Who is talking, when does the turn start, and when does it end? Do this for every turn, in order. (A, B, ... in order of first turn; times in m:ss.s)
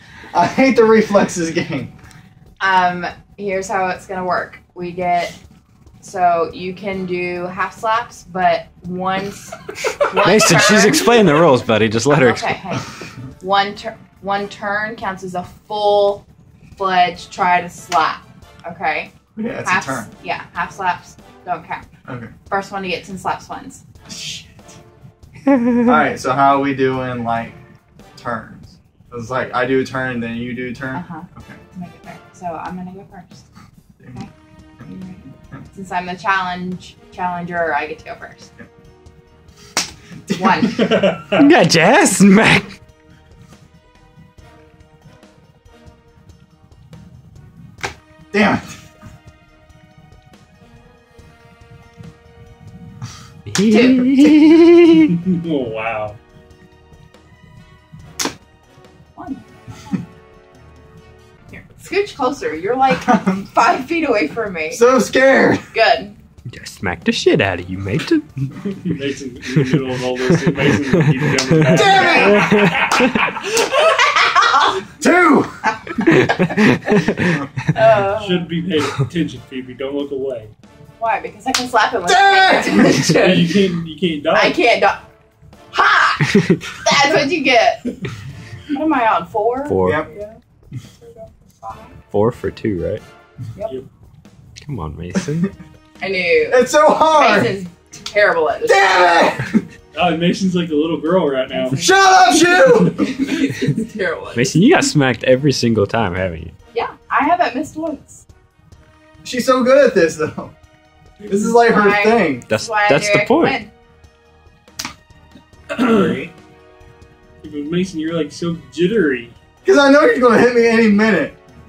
0:00.3-0:01.9 A
0:02.6-0:05.4 B
0:06.0-0:11.1 B
0:10.2-0:12.6 C
0:12.1-0:12.9 B
0:13.4-0:19.1 B
0:19.4-0:20.1 A
0:19.6-0:21.8 B
0:22.1-0:22.3 A
0:22.5-0:23.8 B
0:24.1-0:24.6 A
0:25.5-0:26.0 C
0:25.9-0:27.6 A
0:28.2-0:31.6 A
0:30.9-0:33.4 B
0:34.0-0:34.2 A
0:34.8-0:38.5 B
0:40.3-0:41.0 A
0:40.3-0:40.9 B
0:40.8-0:41.5 D
0:41.4-0:42.7 C
0:48.3-0:48.7 A
0:53.5-0:55.1 C
0:53.7-0:54.4 B
0:55.1-0:56.2 D
0:59.2-1:00.0 B
1:01.5-1:04.8 B
1:02.9-1:03.5 A
1:04.7-1:05.7 A
1:05.7-1:06.2 B
1:06.5-1:08.5 C
1:08.7-1:13.2 D
1:10.6-1:13.2 C
1:11.7-1:12.6 A
1:11.8-1:12.4 B
1:13.4-1:14.9 B
1:15.0-1:16.5 A
1:16.2-1:17.4 C
1:17.7-1:18.5 B
1:18.2-1:20.5 D
1:21.0-1:23.5 B
1:22.1-1:23.3 A
1:23.2-1:24.6 D
1:24.3-1:25.1 B
1:25.7-1:27.9 B
1:28.7-1:32.0 B
1:29.7-1:30.0 C
1:29.8-1:30.1 A
1:32.1-1:33.0 C
1:34.7-1:35.5 C
1:35.2-1:35.5 A
1:36.0-1:38.9 B
1:36.5-1:37.6 A
1:38.6-1:39.6 A
1:39.9-1:41.8 D
1:41.5-1:44.6 B
1:41.8-1:43.4 A
1:44.3-1:46.5 C
1:46.7-1:48.2 B
1:49.2-1:50.6 A
1:51.2-1:52.5 A
1:51.5-1:53.7 B
1:52.5-1:53.6 C
1:55.7-1:56.3 D
1:55.9-1:56.2 A
1:57.4-1:59.4 D
1:59.6-2:01.4 A